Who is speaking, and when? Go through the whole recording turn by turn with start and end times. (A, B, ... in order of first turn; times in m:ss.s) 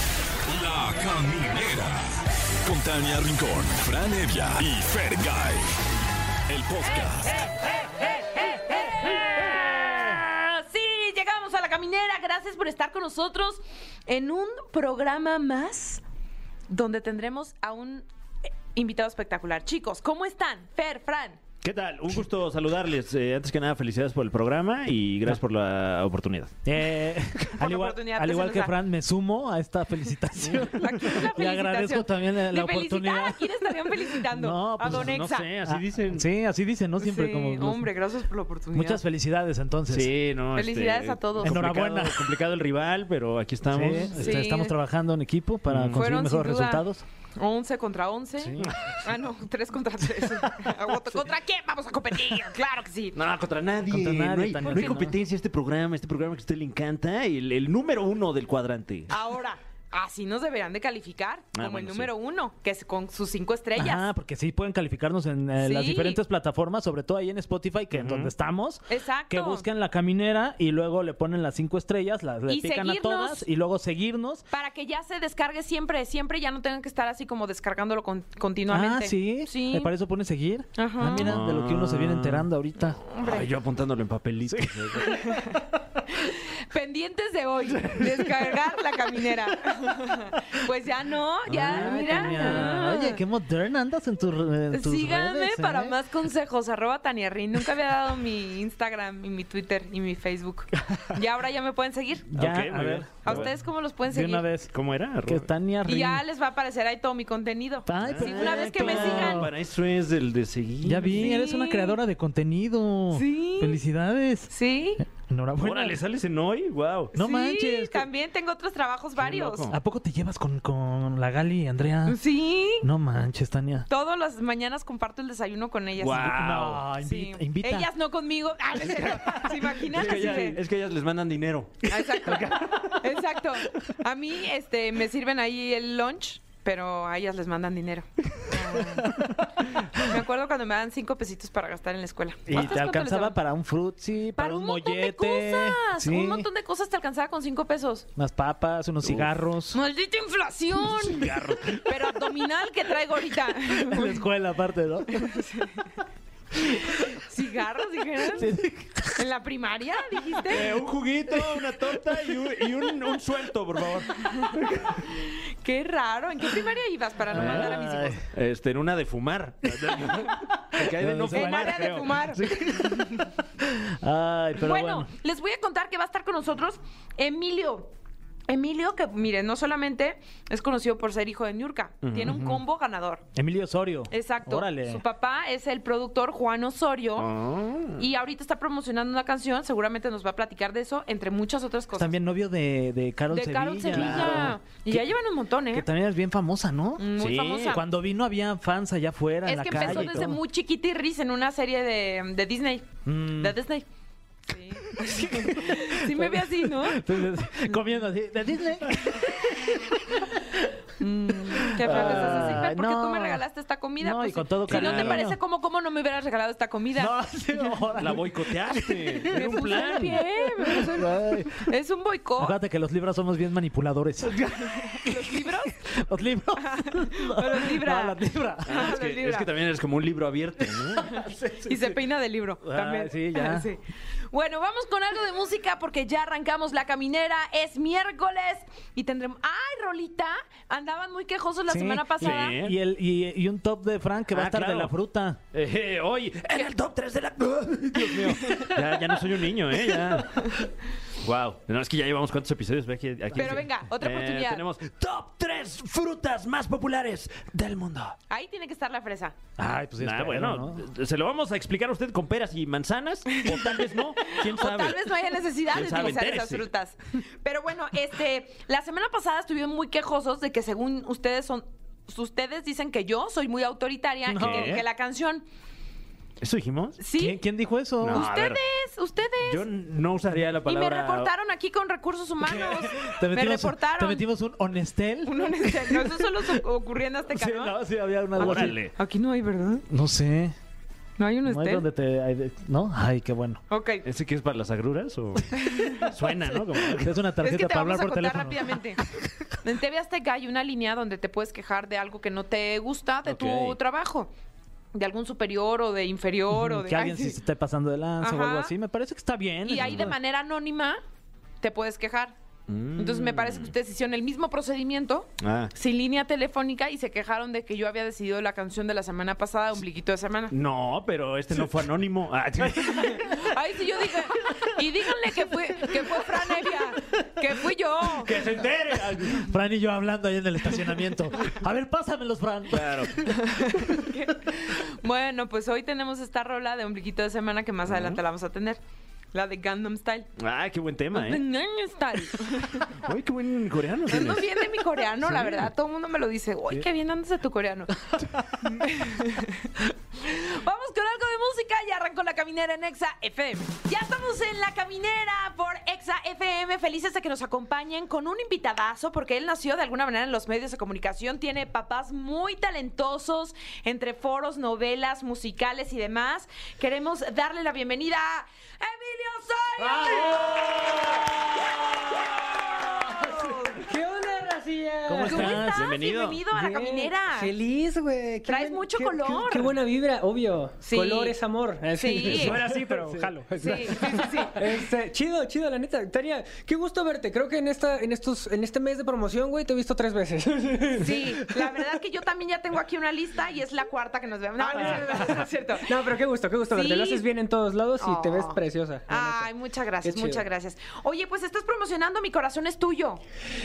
0:00.4-0:05.7 A
0:06.5-0:07.4 A
0:08.0-0:16.0 B
0:16.7-0:18.0 B
0:18.7-0:21.4 B
0:21.6-0:26.5 C
0:26.6-0:35.1 D
0:27.6-0:28.7 B
0:30.6-0:35.5 B
0:34.9-0:36.3 C
0:35.6-0:37.9 D
0:37.0-0:39.0 B
0:38.7-0:40.1 D
0:39.9-0:44.3 C
0:40.5-0:41.6 B
0:41.4-0:42.3 D
0:43.7-0:47.0 D
0:44.1-0:44.8 B
0:45.7-0:46.0 C
0:45.9-0:53.2 B
0:48.4-0:49.0 D
0:53.1-0:59.1 C
0:53.9-0:55.2 D
0:54.7-0:55.0 B
0:59.1-1:04.0 B
1:01.5-1:02.1 C
1:03.8-1:14.4 D
1:05.6-1:06.2 B
1:07.9-1:08.3 C
1:08.9-1:09.6 B
1:12.5-1:13.4 B
1:14.5-1:19.9 B
1:18.7-1:23.0 D
1:20.8-1:21.3 B
1:21.2-1:22.5 C
1:22.8-1:23.5 B
1:23.2-1:25.2 C
1:24.5-1:25.8 D
1:25.0-1:25.6 B
1:26.1-1:33.2 B
1:31.5-1:36.0 D
1:32.4-1:32.7 C
1:34.7-1:42.3 B
1:42.3-1:43.5 D
1:42.3-1:43.5 C
1:43.2-1:44.4 B
1:44.1-1:44.7 D
1:44.7-1:45.5 C
1:45.2-1:46.2 D
1:45.8-1:49.5 B
1:47.8-1:49.5 D
1:48.0-1:51.3 C
1:50.8-1:54.5 D
1:51.1-1:52.0 B
1:53.1-1:53.8 B
1:54.5-1:55.0 B
1:55.1-1:56.0 D
1:55.6-1:57.1 C
1:57.1-1:58.1 D
1:57.1-1:59.7 B
1:59.2-1:59.8 C
1:59.7-2:02.2 D
2:02.0-2:02.9 B
2:02.8-2:03.9 D
2:03.9-2:10.6 B
2:06.0-2:06.8 C
2:06.2-2:07.9 D
2:08.9-2:10.5 D
2:09.3-2:12.9 C
2:11.9-2:19.1 B
2:12.2-2:13.0 D
2:18.9-2:19.5 D
2:19.7-2:23.4 B
2:22.5-2:26.5 D
2:24.4-2:28.1 B
2:28.2-2:29.8 D
2:29.0-2:29.3 C
2:29.7-2:34.2 B
2:30.9-2:31.8 C
2:33.7-2:35.5 D
2:35.1-2:35.9 B
2:36.6-2:38.5 B
2:38.2-2:39.3 D
2:39.1-2:40.7 B
2:40.5-2:45.0 C
2:41.3-2:41.8 D
2:44.2-2:44.5 B
2:45.0-2:48.2 B
2:47.3-2:48.2 D
2:47.3-2:52.3 C
2:49.8-2:55.1 D
2:51.2-2:53.3 B
2:54.6-2:57.9 B
2:58.5-3:03.2 B
3:02.0-3:02.4 C
3:02.2-3:02.6 D
3:03.3-3:05.0 D
3:04.1-3:07.3 B
3:07.2-3:08.0 C
3:08.0-3:12.2 B
3:12.0-3:15.0 D
3:13.3-3:15.8 B
3:13.9-3:14.5 C
3:15.7-3:20.4 D
3:17.0-3:17.8 B
3:17.2-3:17.7 C
3:19.4-3:23.8 B
3:19.8-3:20.2 C
3:23.0-3:23.6 D
3:24.5-3:27.0 B
3:25.0-3:30.7 D
3:31.0-3:37.1 B
3:31.5-3:33.4 D
3:31.9-3:32.4 C
3:34.0-3:35.4 D
3:34.7-3:35.2 C
3:37.0-3:41.7 D
3:38.0-3:39.7 C
3:39.2-3:42.6 B
3:42.4-3:48.9 D
3:44.5-3:45.8 B
3:46.6-3:49.5 B
3:48.6-3:51.1 C
3:50.6-3:52.0 D
3:51.0-4:02.6 B
3:52.6-3:53.7 D
4:01.7-4:05.4 D
4:02.2-4:02.7 C
4:04.3-4:04.9 C
4:05.5-4:10.6 C
4:11.2-4:18.2 C
4:13.4-4:14.6 B
4:18.3-4:19.4 B
4:19.6-4:20.8 D
4:20.0-4:25.1 C
4:23.3-4:35.4 B
4:25.7-4:26.6 C
4:34.3-4:34.8 D
4:34.4-4:34.8 C
4:36.4-4:37.0 C
4:37.0-4:37.4 B
4:37.2-4:38.2 D
4:38.0-4:38.6 C
4:38.1-4:39.6 B
4:39.4-4:41.3 C
4:40.6-4:44.2 B
4:42.4-4:46.6 D
4:45.2-4:47.8 B
4:47.3-4:48.8 D
4:48.4-4:48.9 C
4:48.4-4:49.8 B
4:49.9-4:50.5 D
4:51.2-4:51.8 B
4:51.4-4:53.6 D
4:53.7-4:54.0 B
4:54.0-4:57.2 C
4:55.6-4:56.1 B
4:56.3-4:59.3 D
4:57.4-4:59.0 B
4:59.6-5:04.3 B
5:03.2-5:03.8 C
5:04.9-5:07.4 B
5:06.5-5:10.1 D
5:08.2-5:08.7 B
5:09.6-5:11.0 B
5:09.8-5:10.1 C
5:11.6-5:12.3 B
5:12.7-5:13.7 C
5:12.9-5:20.5 B
5:15.4-5:15.7 C
5:20.5-5:23.2 C
5:22.6-5:23.4 D
5:22.8-5:28.3 B
5:25.8-5:27.2 D
5:28.2-5:29.5 C
5:28.3-5:33.4 D
5:32.7-5:33.3 C
5:33.3-5:38.8 B
5:37.9-5:38.2 C
5:39.3-5:40.3 B
5:40.4-5:41.4 C
5:41.1-5:42.9 B
5:42.9-5:44.7 C
5:44.1-6:10.6 B
5:45.2-5:45.7 C
6:09.8-6:11.0 D
6:13.0-6:13.8 B
6:13.7-6:15.6 E
6:15.1-6:15.9 D
6:15.2-6:17.5 B
6:15.6-6:16.4 C
6:16.5-6:31.9 E
6:18.5-6:19.8 B
6:20.8-6:21.4 B
6:21.9-6:22.6 B
6:22.3-6:23.3 D
6:23.6-6:24.6 B
6:31.0-6:36.2 B
6:34.6-6:39.5 E
6:36.7-6:37.3 B
6:38.0-6:43.2 B
6:40.0-6:40.4 E